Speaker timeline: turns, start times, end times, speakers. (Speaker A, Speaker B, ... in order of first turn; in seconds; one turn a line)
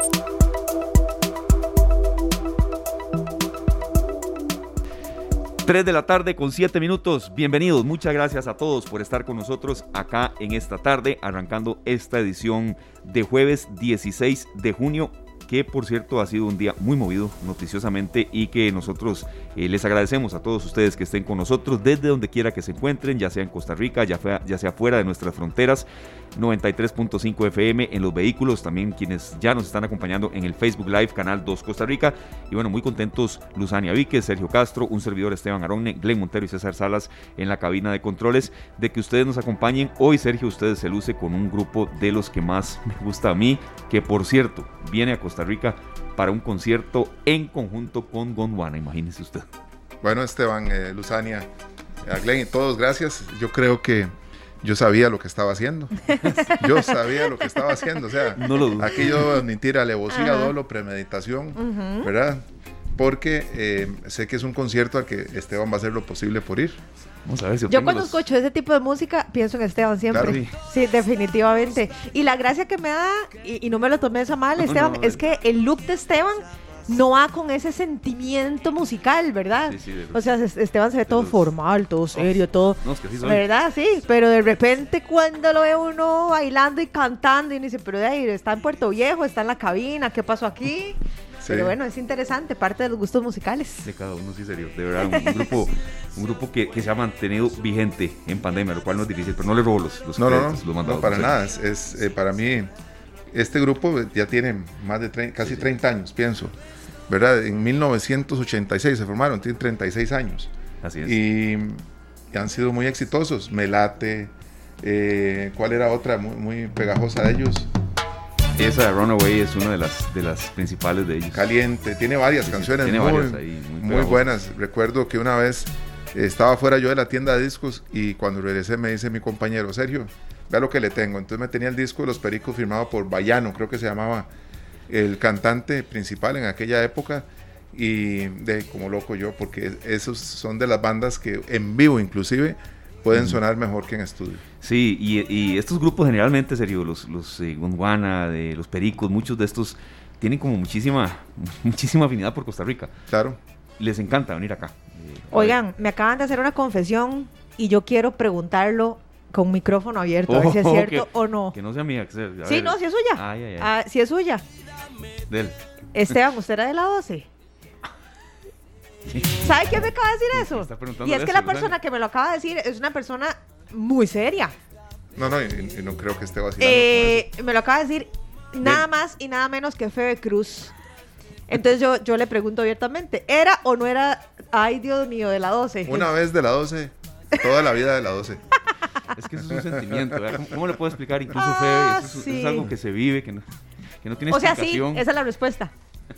Speaker A: 5.7-49.5
Speaker B: 50.0-51.5
Speaker B: 52.0-66.8
Speaker C: 56.1-56.5
Speaker A: 58.4-59.2
Speaker C: 60.1-60.5
Speaker C: 61.6-62.1
Speaker A: 67.2-68.2
Speaker C: 67.7-93.9
Speaker B: 70.1-70.4
Speaker A: 70.2-70.5
Speaker A: 74.6-75.2
Speaker A: 79.7-80.3
Speaker A: 81.1-81.5
Speaker A: 82.8-83.4
Speaker B: 91.4-91.8
Speaker A: 93.8-101.4
Speaker C: 95.1-95.5
Speaker B: 100.2-102.7
Speaker B: 103.3-106.5
Speaker B: 107.1-110.5
Speaker A: 110.8-111.2
Speaker B: 111.0-117.7
Speaker A: 118.6-121.5
Speaker B: 121.3-134.3
Speaker A: 122.5-124.2
Speaker B: 134.9-144.4
Speaker A: 143.1-143.4
Speaker A: 144.6-152.9
Speaker B: 153.1-153.4
Speaker A: 153.8-155.6
Speaker C: 155.3-161.5
Speaker A: 160.3-163.7
Speaker C: 162.4-164.4
Speaker A: 165.3-165.6
Speaker C: 165.9-167.3
Speaker A: 169.1-171.8
Speaker C: 169.4-174.6
Speaker B: 175.2-177.3
Speaker C: 176.6-180.7
Speaker C: 181.5-186.1
Speaker B: 185.8-188.4
Speaker A: 189.1-195.1
Speaker B: 189.9-190.3
Speaker C: 191.4-192.7
Speaker C: 194.3-195.7